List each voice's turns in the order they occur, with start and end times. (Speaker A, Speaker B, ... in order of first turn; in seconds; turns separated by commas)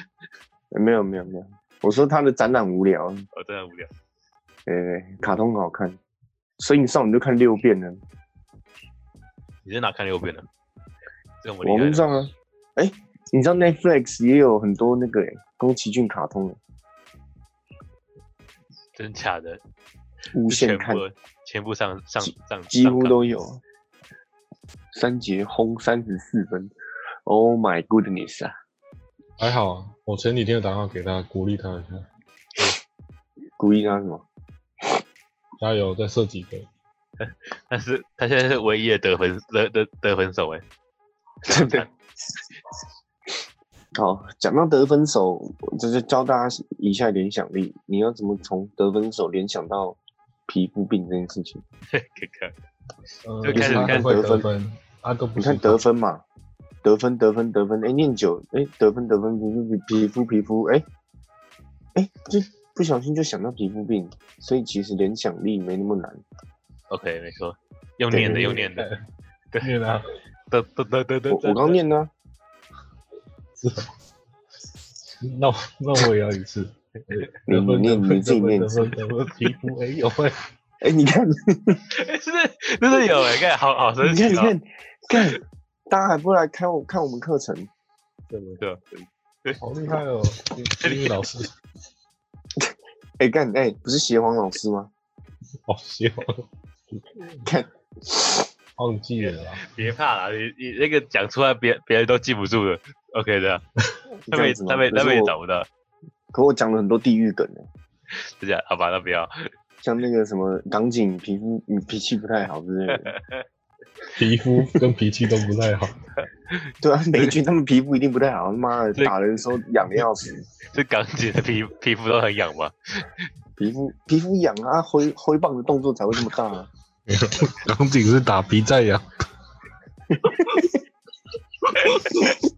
Speaker A: 0.7-3.2, Speaker B: 3.3-3.9, Speaker A: 4.7-6.0, Speaker A: 6.6-8.0, Speaker B: 9.6-10.5, Speaker B: 11.4-12.0, Speaker A: 11.6-16.6, Speaker B: 18.9-19.6, Speaker A: 20.3-21.0, Speaker B: 20.5-23.2, Speaker A: 22.2-23.6, Speaker A: 24.9-26.7, Speaker A: 27.2-28.5, Speaker C: 29.4-32.1, Speaker A: 33.6-34.2, Speaker C: 35.6-36.7, Speaker B: 37.2-40.6, Speaker A: 41.5-41.9, Speaker B: 41.5-41.9, Speaker A: 43.9-51.6, Speaker B: 51.9-52.5, Speaker C: 53.2-55.8, Speaker B: 53.4-54.2, Speaker A: 53.5-54.5, Speaker A: 55.4-56.2, Speaker A: 56.8-60.9, Speaker A: 61.9-66.2, Speaker B: 66.9-68.9, Speaker A: 68.1-68.6, Speaker C: 68.2-69.0, Speaker C: 69.6-70.0, Speaker B: 70.5-71.8, Speaker A: 71.3-72.1, Speaker C: 73.6-73.9, Speaker C: 75.2-80.4, Speaker A: 77.5-78.9, Speaker A: 80.8-81.8, Speaker B: 81.9-84.5, Speaker A: 84.0-87.7, Speaker B: 88.4-89.6, Speaker C: 89.6-91.5, Speaker B: 90.8-91.1, Speaker A: 92.6-94.9, Speaker C: 95.7-96.5, Speaker A: 97.4-98.5, Speaker C: 98.8-99.6, Speaker B: 99.6-103.6, Speaker A: 104.3-105.3, Speaker B: 104.3-105.7, Speaker A: 106.3-107.7, Speaker B: 108.1-109.5, Speaker A: 109.8-113.1, Speaker B: 112.9-113.4, Speaker C: 114.1-115.9, Speaker B: 116.2-116.6, Speaker A: 116.8-120.4, Speaker B: 120.7-123.1, Speaker A: 123.6-126.7, Speaker C: 127.1-129.1, Speaker A: 130.1-130.7, Speaker B: 131.8-132.1, Speaker C: 131.9-132.2